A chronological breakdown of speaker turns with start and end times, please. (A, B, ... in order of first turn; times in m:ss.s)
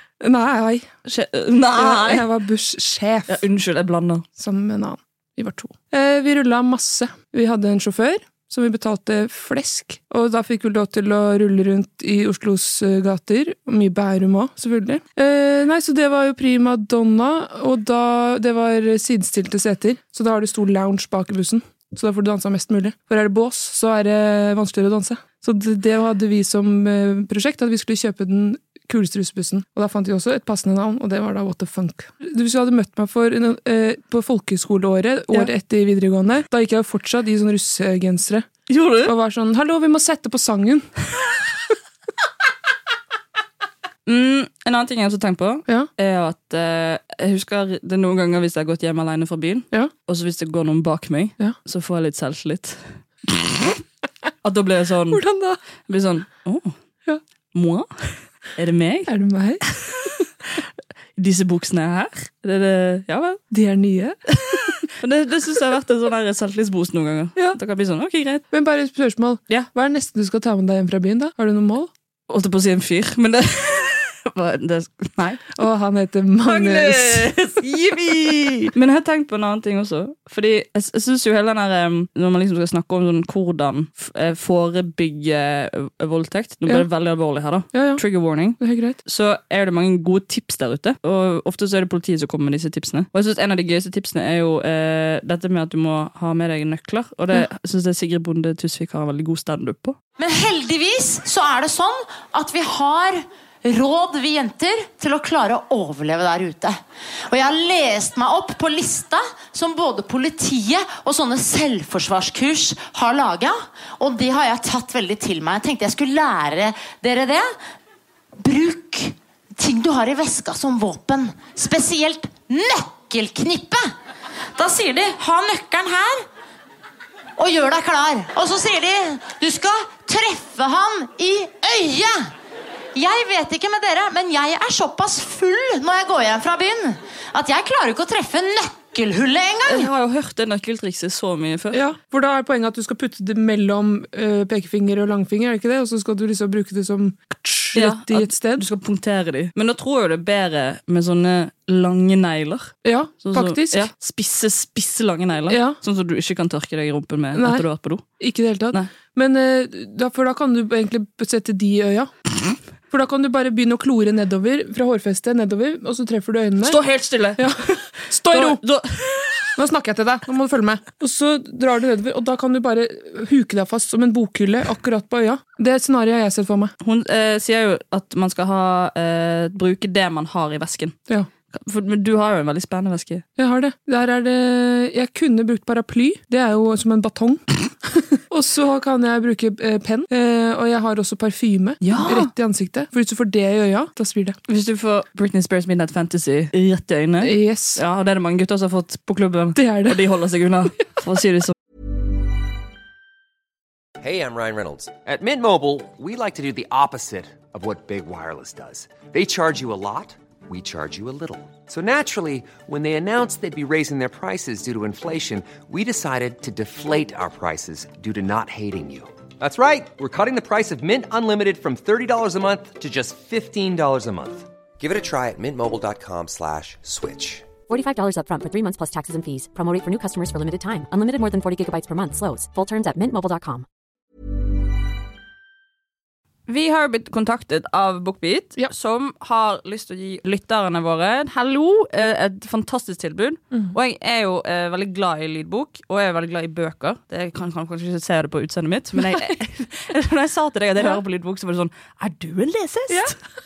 0:00.2-0:00.9 A
0:01.1-0:02.3 B
0:01.7-0:03.4 A
0:03.3-0:04.2 B
0:04.4-0:38.5 A
0:38.7-0:39.1 B
0:39.0-0:40.9 A
0:44.1-0:53.6 B
0:54.4-0:55.2 B
0:55.1-0:55.6 A
0:55.9-0:56.7 B
0:57.5-0:59.1 B
0:59.1-0:59.6 A
0:59.7-1:00.1 B
1:01.2-1:03.4 B
1:03.5-1:04.2 A
1:04.4-1:08.4 B
1:08.5-1:11.9 A
1:12.3-1:15.6 B
1:15.6-1:17.4 A
1:16.4-1:40.0 B
1:27.7-1:28.0 A
1:28.6-1:29.0 A
1:40.2-1:46.8 C
1:47.3-1:57.6 C
1:58.4-2:03.9 C
2:04.6-2:06.3 C
2:07.4-2:12.3 C
2:13.0-2:19.9 C
2:19.7-2:21.8 B
2:21.7-2:28.6 A
2:27.8-2:38.0 B
2:32.8-2:33.9 A
2:35.5-2:35.8 A
2:37.4-2:37.6 A
2:38.2-2:42.1 A
2:42.9-2:46.8 A
2:46.6-2:49.6 B
2:47.4-2:48.6 A
2:49.6-2:56.7 A
2:56.8-3:01.0 B
3:01.5-3:03.2 B
3:03.4-3:07.4 A
3:08.0-3:14.4 A
3:11.8-3:12.3 B
3:14.5-3:21.5 B
3:17.2-3:17.8 A
3:19.6-3:20.0 A
3:24.0-3:47.5 D
3:47.7-3:53.7 E
3:56.5-4:13.2 B
4:12.9-4:13.2 A